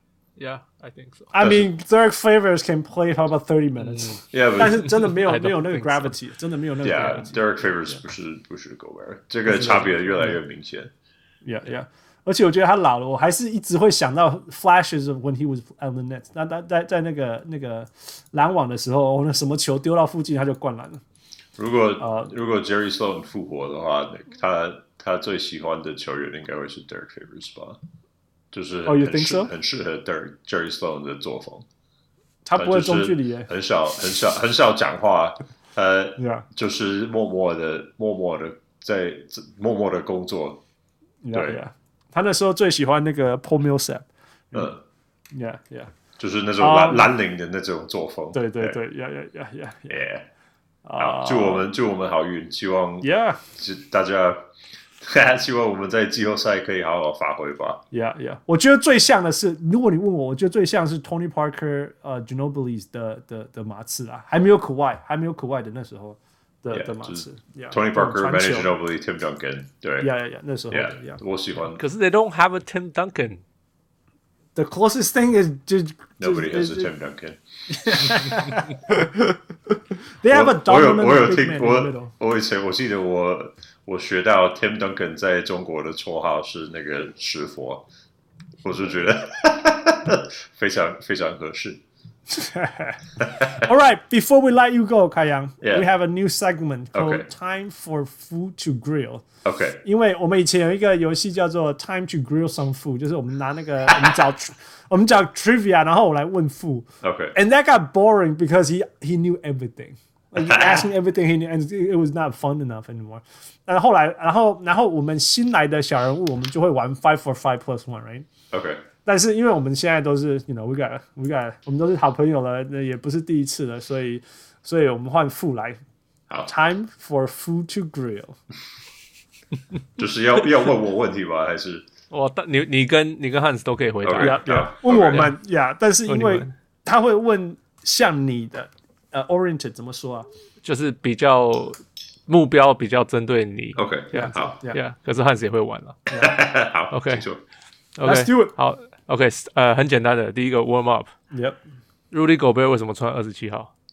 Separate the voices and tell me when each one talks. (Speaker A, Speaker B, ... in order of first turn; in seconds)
Speaker A: 0.4-1.3, 3.8-4.2, 4.8-6.2, 71.7-73.4, 132.1-135.3, 136.1-136.5, 140.6-146.1, 146.9-147.3, 148.0-151.1, 152.1-153.7
Speaker B: 1.3-7.5, 9.5-10.4, 11.4-21.0, 22.0-22.3, 28.9-29.5, 32.5-33.5, 36.2-36.5, 41.2-44.7, 45.3-45.9, 46.6-47.1, 48.3-49.9, 50.9-51.6, 53.0-53.4, 57.9-68.7, 70.0-71.2, 74.5-76.9, 77.7-79.2, 80.2-82.1, 92.3-93.0, 93.6-99.2, 99.8-118.3, 119.0-125.8, 126.5-128.4, 134.2-140.3, 144.2-144.8, 146.1-146.4, 148.0-148.5, 151.3-151.6
Speaker C: 1.4-1.7, 4.3-4.9, 6.8-10.9, 21.6-27.8, 28.5-31.7, 32.6-40.6, 41.3-41.6, 44.5-44.8, 46.2-48.8, 49.9-50.3, 51.0-54.5, 55.0-57.8, 66.7-70.1, 70.7-71.8, 76.2-78.4, 80.3-87.8, 88.6-91.8, 93.2-93.7, 95.6-95.9, 96.9-97.3, 99.4-99.8, 107.0-107.3, 110.4-110.9, 118.5-118.8, 130.0-131.9, 134.0-135.3, 143.8-144.6, 146.2-147.4